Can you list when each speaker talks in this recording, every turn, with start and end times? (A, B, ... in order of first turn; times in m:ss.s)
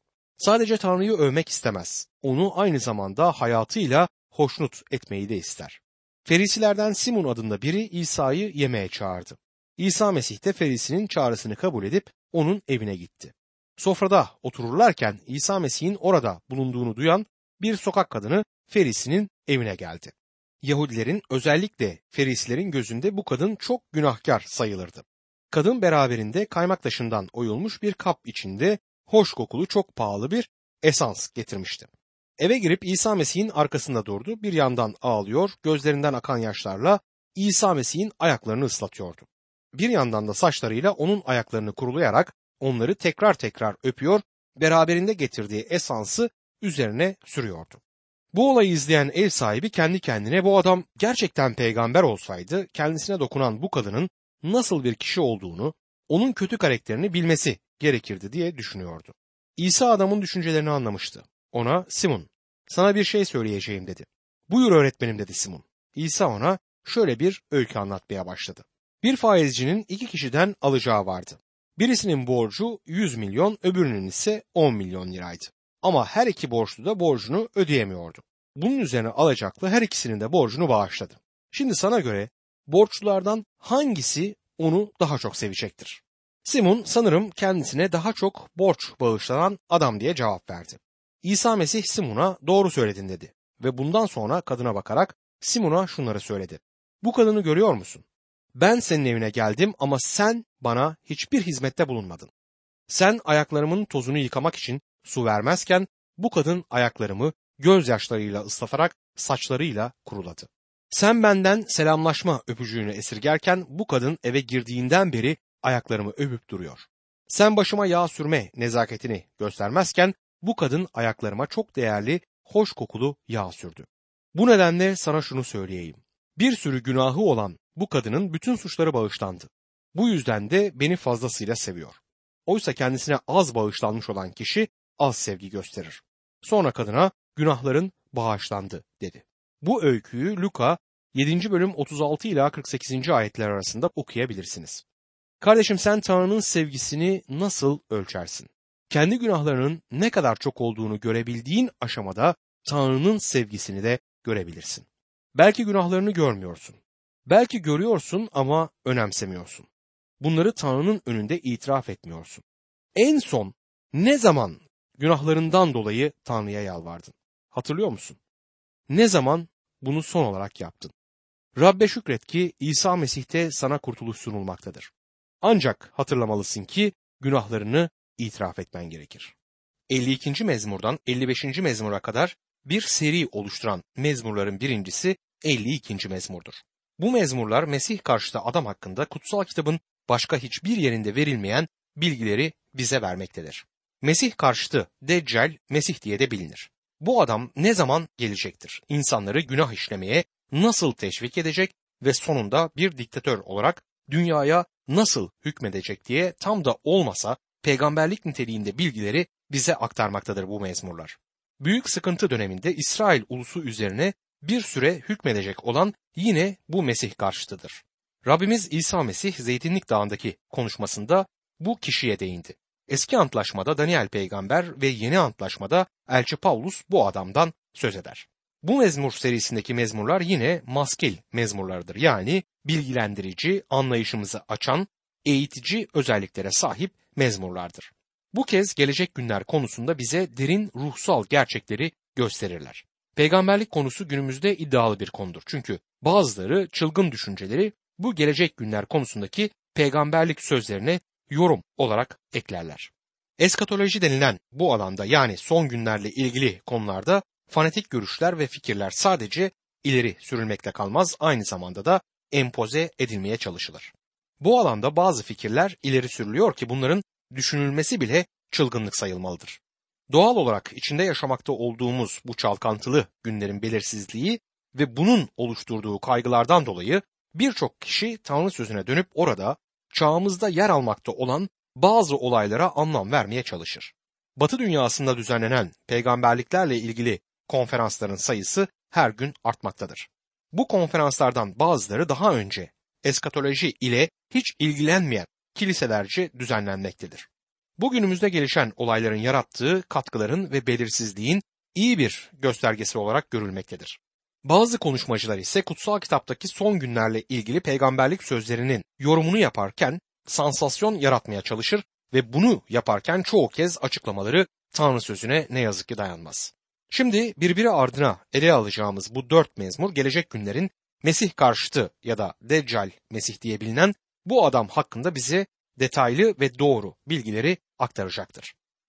0:00.4-0:47.8 A
0:48.3-1:42.3 A
1:42.9-2:24.8 A
2:25.4-2:39.7 A
2:40.2-2:42.4 A
2:42.9-2:48.2 A
2:48.9-2:50.9 A
2:51.5-2:54.9 A
2:55.4-2:59.4 A
2:59.9-4:57.3 A
4:57.8-5:28.5 A